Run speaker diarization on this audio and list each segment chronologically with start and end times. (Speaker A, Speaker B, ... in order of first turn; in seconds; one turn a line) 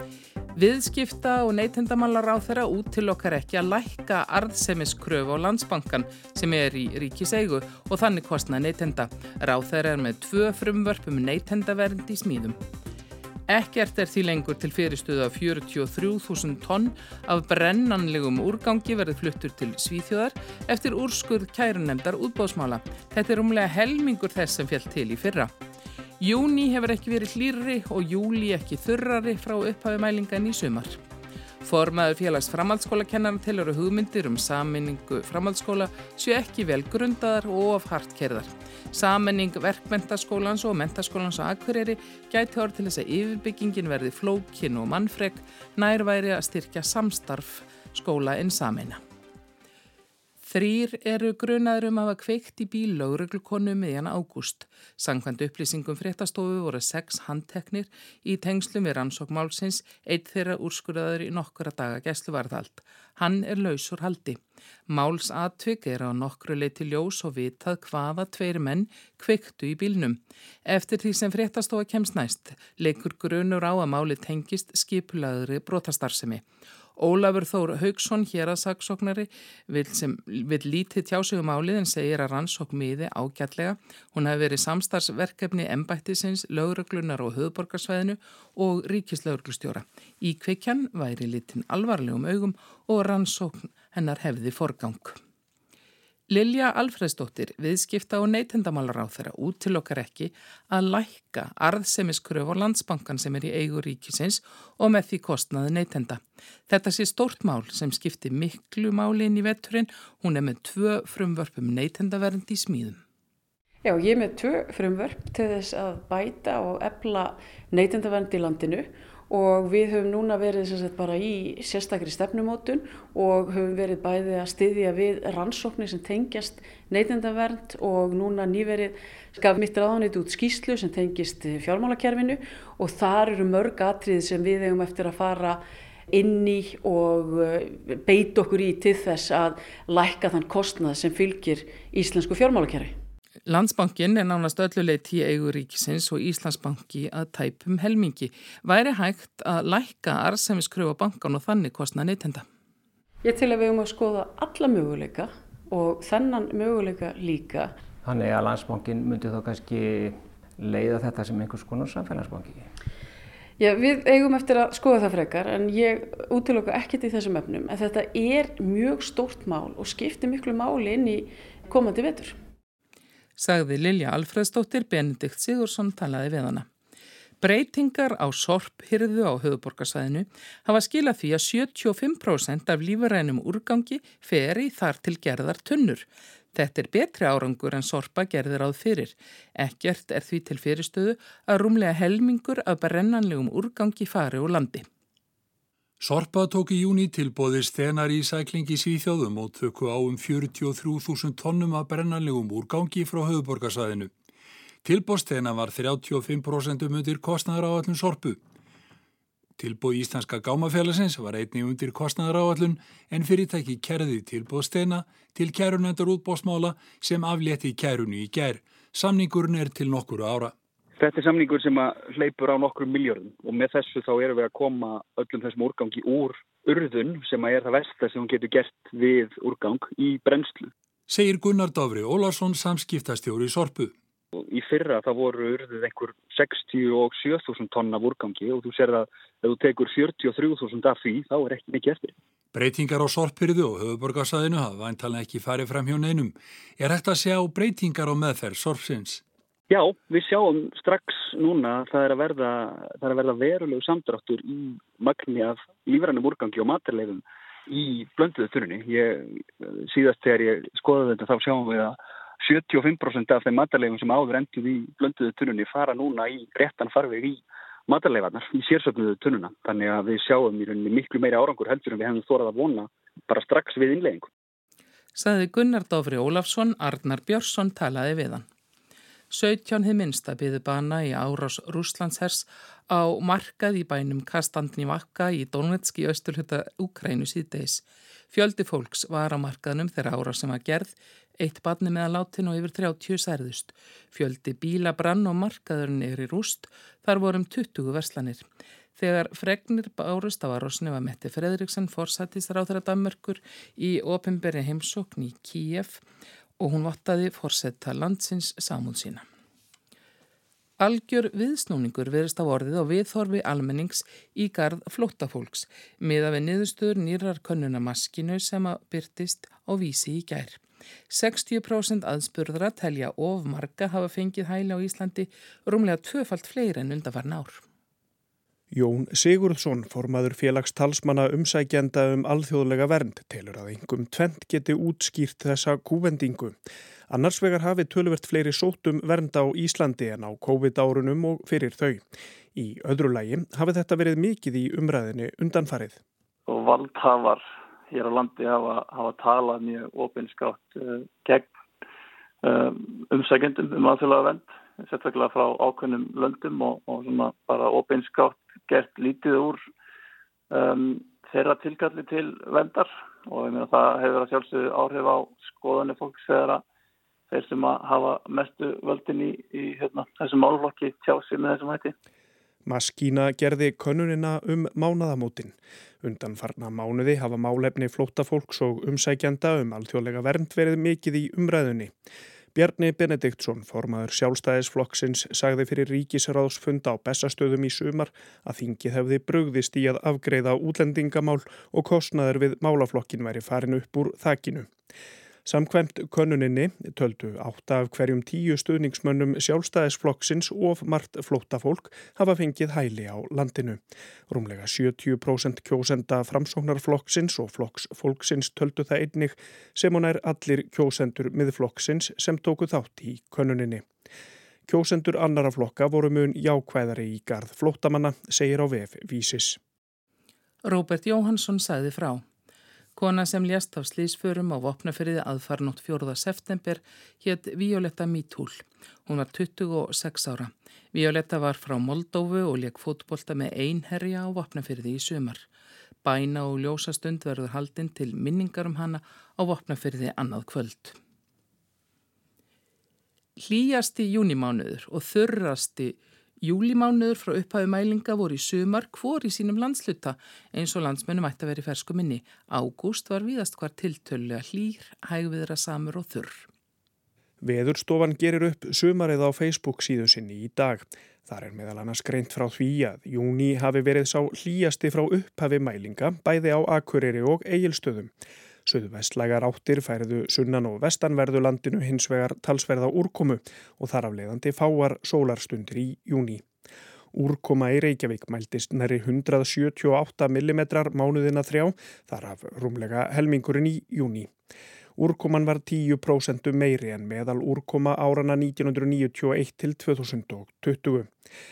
Speaker A: 0.5-12.6
Speaker A: 13.5-25.5
Speaker A: 26.2-31.0
Speaker A: 31.6-49.0
Speaker A: 50.4-76.4
Speaker A: 77.0-95.2
Speaker A: 96.3-113.0
Speaker B: 113.8-135.6
Speaker B: 136.1-142.9
Speaker A: 143.4-152.4
Speaker B: 153.2-157.7
Speaker C: 158.0-162.7
Speaker B: 163.6-172.4
Speaker A: 173.4-176.7
Speaker A: 177.4-194.8
Speaker D: 196.0-204.1
Speaker D: 204.8-208.4
Speaker D: 209.6-220.5
Speaker E: 221.0-230.7
Speaker D: 231.1-233.9
Speaker E: 234.4-242.2
Speaker D: 242.5-249.2
Speaker E: 249.7-274.3
Speaker A: 275.1-278.4
Speaker A: 279.3-306.0
Speaker A: 306.6-309.2
Speaker A: 310.8-327.6
Speaker F: 328.7-342.0
Speaker F: 342.5-346.0
Speaker G: 346.5-351.5
Speaker G: 352.4-359.6
Speaker G: 360.5-366.6
Speaker G: 367.3-371.9
Speaker F: 372.6-381.9
Speaker F: 382.5-394.7
Speaker F: 395.4-413.9
Speaker F: 414.7-419.6
Speaker A: 420.6-422.2
Speaker A: 422.9-435.5
Speaker A: 436.0-440.9
Speaker A: 443.4-456.5
Speaker F: 457.4-468.1
Speaker F: 468.6-476.4
Speaker F: 477.1-484.3
Speaker F: 485.0-491.1